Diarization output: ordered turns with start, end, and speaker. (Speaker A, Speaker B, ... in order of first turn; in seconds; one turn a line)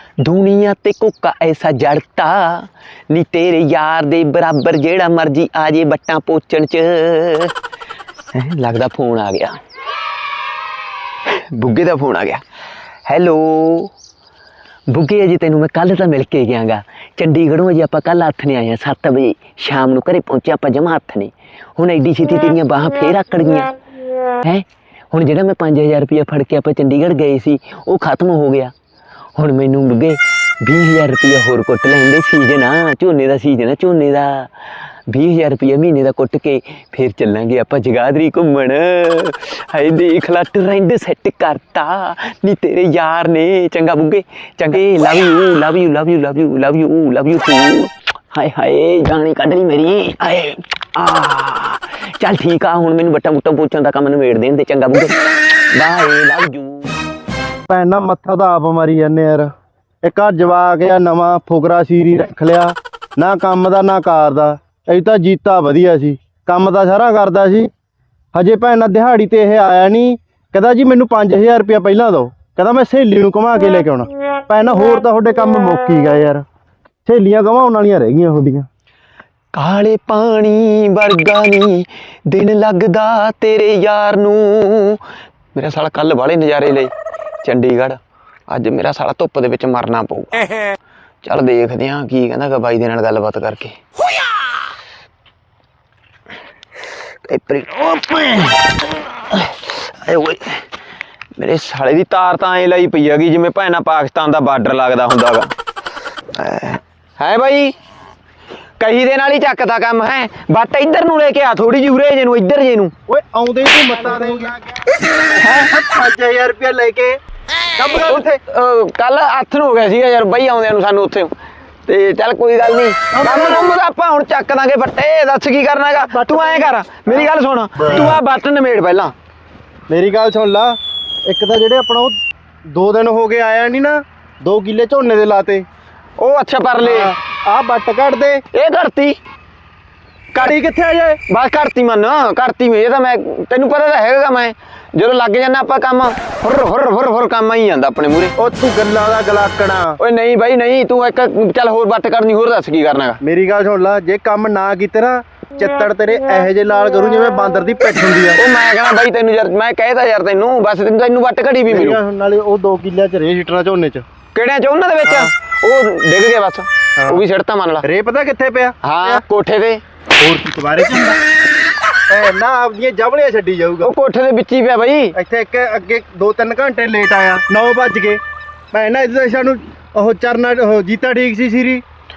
Speaker A: 0.2-7.5
Speaker A: 8.3-9.6
Speaker A: 11.5-12.4
Speaker A: 13.1-13.9
Speaker A: 14.9-23.7
Speaker A: 24.4-28.7
Speaker A: 29.4-34.5
Speaker A: 35.1-55.1
Speaker A: 55.7-56.9
Speaker B: 57.7-59.5
Speaker B: 60.0-67.7
Speaker B: 68.3-76.4
Speaker B: 77.0-78.7
Speaker A: 79.5-85.0
Speaker A: 85.5-86.9
Speaker A: 87.4-88.0
Speaker A: 88.5-90.4
Speaker A: 91.2-93.8
Speaker A: 97.3-98.7
Speaker A: 99.3-100.5
Speaker A: 101.4-105.5
Speaker A: 106.3-107.7
Speaker A: 108.8-112.9
Speaker B: 113.1-117.2
Speaker B: 117.8-118.4
Speaker A: 118.1-121.3
Speaker A: 121.9-129.1
Speaker B: 123.1-123.7
Speaker B: 125.9-128.2
Speaker B: 129.9-132.2
Speaker B: 132.7-135.7
Speaker A: 136.2-137.1
Speaker B: 136.8-138.4
Speaker A: 138.5-139.2
Speaker B: 140.3-141.2
Speaker A: 141.3-148.3
Speaker B: 148.4-150.0
Speaker A: 150.0-153.2
Speaker B: 153.2-158.4
Speaker A: 158.3-162.0
Speaker B: 161.7-164.0
Speaker A: 164.3-167.8
Speaker B: 165.0-165.3
Speaker B: 167.0-167.2
Speaker B: 167.8-169.2
Speaker A: 168.8-169.8
Speaker B: 170.2-171.2
Speaker B: 172.1-173.9
Speaker A: 173.8-175.2
Speaker B: 175.1-178.2
Speaker B: 178.7-181.8